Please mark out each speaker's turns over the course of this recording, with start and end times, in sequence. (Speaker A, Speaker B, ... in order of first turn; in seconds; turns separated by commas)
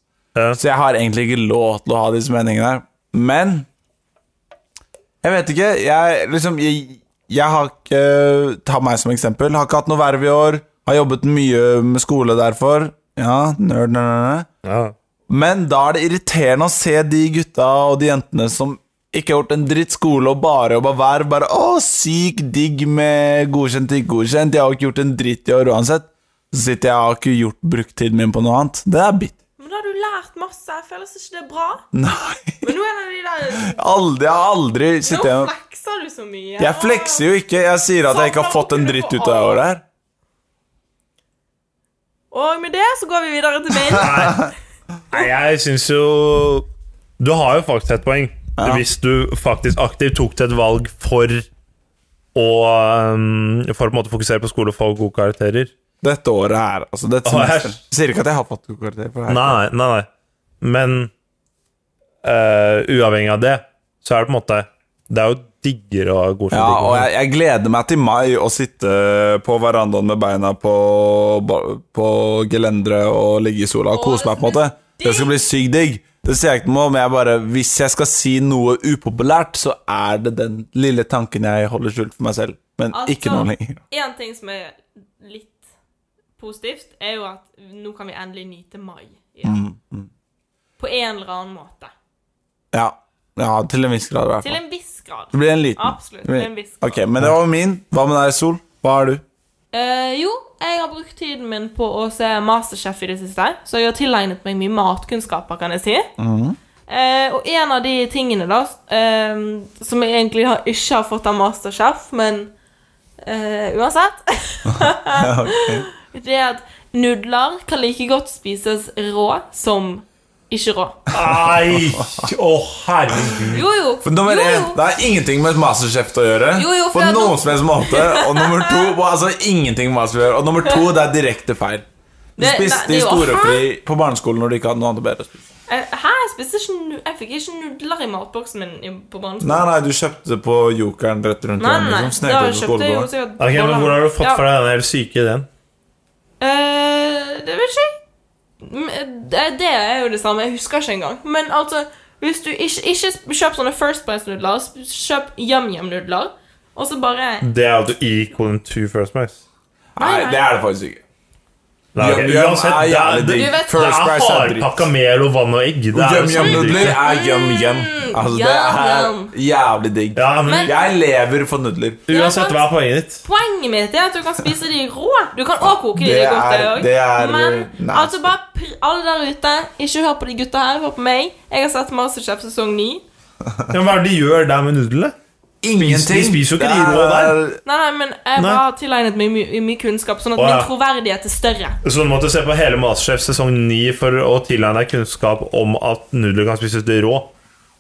Speaker A: 0.6-3.7, Speaker A: 5.2-14.5, Speaker B: 14.6-14.9, Speaker A: 15.3-29.4, Speaker C: 29.6-31.9, Speaker A: 31.9-32.7, Speaker C: 32.6-33.8, Speaker A: 33.5-35.5, Speaker C: 35.0-37.3, Speaker A: 36.6-39.8, Speaker C: 38.1-39.6, Speaker C: 42.3-44.5, Speaker B: 43.9-44.5, Speaker B: 45.1-46.7, Speaker B: 47.2-51.5, Speaker A: 48.6-48.9, Speaker B: 52.4-55.7, Speaker A: 56.0-59.6, Speaker B: 57.3-57.8, Speaker B: 59.3-60.1, Speaker B: 60.6-61.1, Speaker B: 62.2-67.1, Speaker A: 66.5-83.8, Speaker C: 73.9-75.3, Speaker C: 82.9-85.6, Speaker C: 86.4-89.6, Speaker A: 89.4-90.1, Speaker C: 90.8-91.9, Speaker A: 92.7-94.6, Speaker C: 94.4-97.0, Speaker A: 95.3-99.2, Speaker C: 99.7-106.1, Speaker A: 106.2-106.6, Speaker C: 106.9-112.5, Speaker C: 113.2-121.0, Speaker A: 114.7-115.9, Speaker B: 121.1-123.7, Speaker A: 121.1-122.3, Speaker C: 123.5-124.8, Speaker A: 124.0-131.8, Speaker C: 126.5-128.9, Speaker C: 132.4-133.7, Speaker A: 132.4-135.4, Speaker C: 135.7-139.7, Speaker A: 139.4-143.1, Speaker C: 141.6-144.4, Speaker B: 143.4-145.5, Speaker C: 146.4-148.0, Speaker C: 148.6-157.5, Speaker B: 157.4-159.4, Speaker A: 160.0-161.0, Speaker C: 160.0-160.4, Speaker B: 161.9-167.0, Speaker A: 162.0-164.9, Speaker C: 163.3-163.8, Speaker A: 165.9-172.1, Speaker C: 166.3-169.3, Speaker B: 170.2-170.7, Speaker C: 170.4-170.8, Speaker B: 172.1-173.2, Speaker C: 172.1-172.7, Speaker C: 173.2-183.0, Speaker A: 176.0-178.3, Speaker B: 183.7-185.1, Speaker A: 185.6-187.6, Speaker B: 185.8-187.4, Speaker C: 187.7-191.8, Speaker B: 188.4-188.6, Speaker B: 190.4-190.7, Speaker B: 191.8-197.3